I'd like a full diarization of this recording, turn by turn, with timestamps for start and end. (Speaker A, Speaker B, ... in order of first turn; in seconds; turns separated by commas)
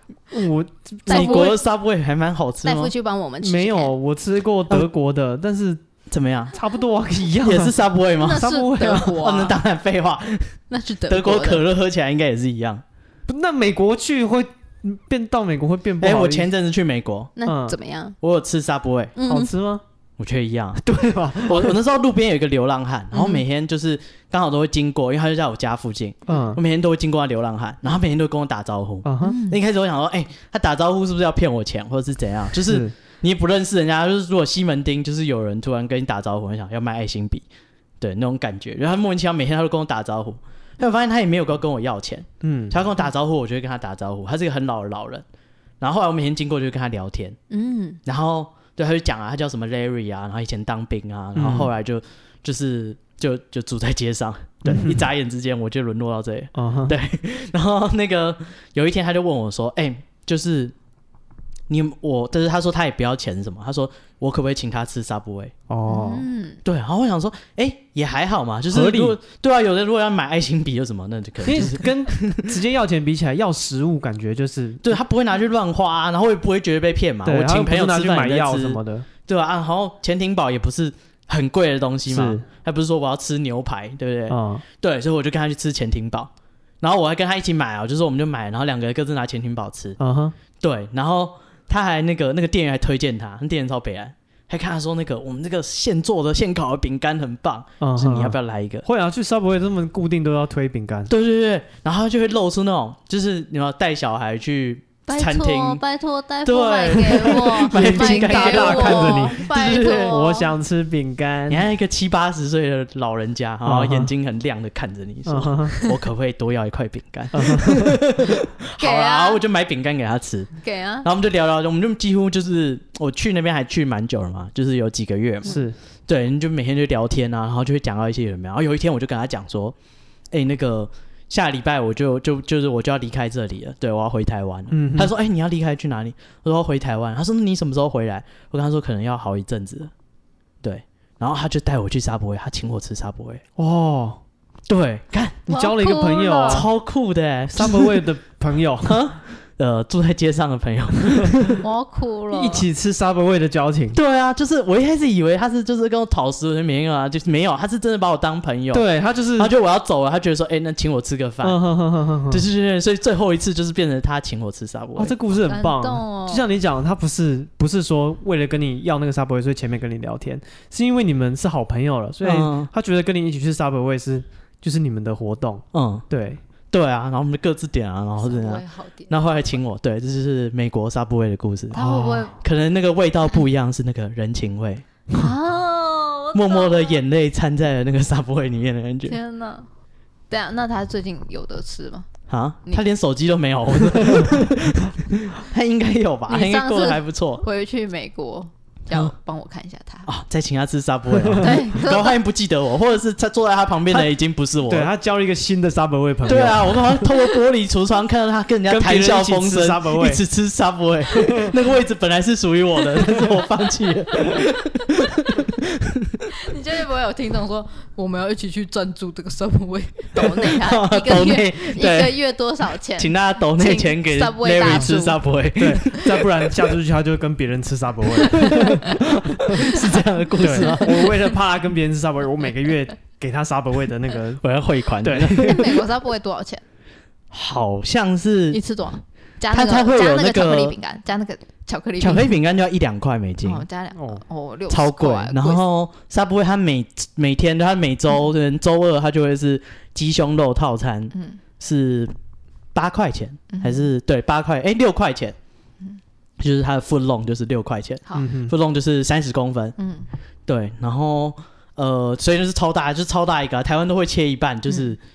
Speaker A: 0.3-1.5, Speaker B: 1.1-2.9, Speaker C: 1.1-1.6, Speaker C: 2.6-3.9, Speaker A: 3.4-5.8, Speaker B: 6.1-6.5, Speaker A: 6.5-7.8, Speaker B: 7.4-12.8, Speaker C: 8.2-9.6, Speaker A: 8.3-9.1, Speaker C: 10.7-11.6, Speaker A: 13.3-16.5, Speaker B: 16.0-17.3, Speaker C: 17.4-18.2, Speaker A: 17.4-17.8, Speaker B: 18.2-19.1, Speaker C: 19.1-19.5, Speaker A: 19.2-19.8, Speaker B: 20.2-20.8, Speaker A: 20.8-21.8, Speaker B: 21.4-37.5, Speaker C: 23.1-23.4, Speaker A: 26.3-26.6, Speaker C: 26.3-26.5, Speaker A: 29.0-29.4, Speaker C: 29.2-29.6, Speaker A: 32.7-32.9, Speaker B: 38.0-45.2, Speaker A: 42.4-42.8, Speaker B: 45.8-47.4, Speaker C: 47.5-48.0, Speaker B: 48.0-60.7, Speaker A: 51.3-51.7, Speaker A: 54.6-55.0, Speaker A: 56.5-56.9, Speaker B: 61.7-65.5, Speaker A: 65.7-66.2, Speaker C: 65.8-66.6, Speaker B: 66.6-72.5, Speaker A: 68.7-69.2, Speaker A: 71.4-74.8, Speaker B: 74.8-90.0, Speaker A: 77.2-79.1, Speaker A: 82.1-82.5, Speaker A: 84.3-84.6, Speaker A: 90.0-90.3, Speaker B: 90.6-98.8, Speaker A: 97.8-101.1, Speaker B: 101.1-105.8, Speaker C: 105.1-110.5, Speaker B: 106.4-110.2, Speaker A: 107.1-111.7, Speaker B: 111.5-129.8, Speaker A: 113.6-114.1, Speaker A: 115.2-115.8, Speaker A: 117.3-117.9, Speaker C: 118.8-119.4, Speaker C: 120.6-121.1, Speaker A: 125.5-125.7, Speaker B: 130.3-139.9, Speaker A: 134.7-135.1, Speaker B: 140.6-143.4, Speaker A: 143.6-144.2, Speaker B: 144.7-145.4, Speaker A: 145.4-146.7, Speaker C: 145.5-146.7, Speaker B: 146.4-148.0, Speaker A: 147.5-149.0, Speaker B: 148.8-151.6, Speaker A: 151.2-151.5, Speaker C: 151.6-152.7, Speaker A: 152.3-154.0, Speaker B: 153.9-158.8, Speaker A: 158.7-159.5, Speaker B: 159.4-161.6, Speaker A: 161.4-162.4, Speaker B: 162.3-165.1, Speaker A: 165.0-176.4, Speaker C: 165.5-166.4, Speaker B: 172.2-172.7, Speaker B: 175.7-176.1, Speaker B: 176.7-184.8, Speaker C: 178.2-179.4, Speaker C: 181.7-182.3, Speaker A: 181.8-182.3, Speaker C: 185.1-187.0, Speaker B: 186.3-189.2, Speaker C: 189.1-189.7, Speaker C: 190.3-192.1, Speaker B: 192.3-197.4, Speaker C: 196.3-200.1, Speaker B: 200.1-204.9, Speaker A: 201.2-201.5, Speaker C: 201.4-202.2, Speaker A: 204.6-207.0, Speaker B: 206.2-216.1, Speaker A: 208.7-210.2, Speaker C: 216.4-225.2, Speaker B: 220.2-222.2, Speaker B: 223.0-226.2, Speaker A: 224.6-229.7, Speaker C: 228.3-228.9, Speaker B: 228.5-228.7, Speaker B: 229.3-231.1, Speaker A: 230.4-234.4, Speaker C: 230.6-231.0, Speaker B: 234.4-235.7, Speaker A: 235.0-235.7, Speaker C: 235.4-236.6, Speaker B: 237.3-238.6, Speaker C: 238.5-242.3, Speaker B: 239.5-240.8, Speaker B: 242.0-243.6, Speaker C: 243.4-245.6, Speaker A: 243.9-244.2, Speaker B: 244.7-252.1, Speaker C: 251.1-251.4, Speaker B: 252.7-255.3, Speaker C: 253.5-253.9, Speaker B: 256.4-259.8, Speaker A: 258.1-258.5, Speaker C: 259.8-260.1, Speaker B: 260.5-265.0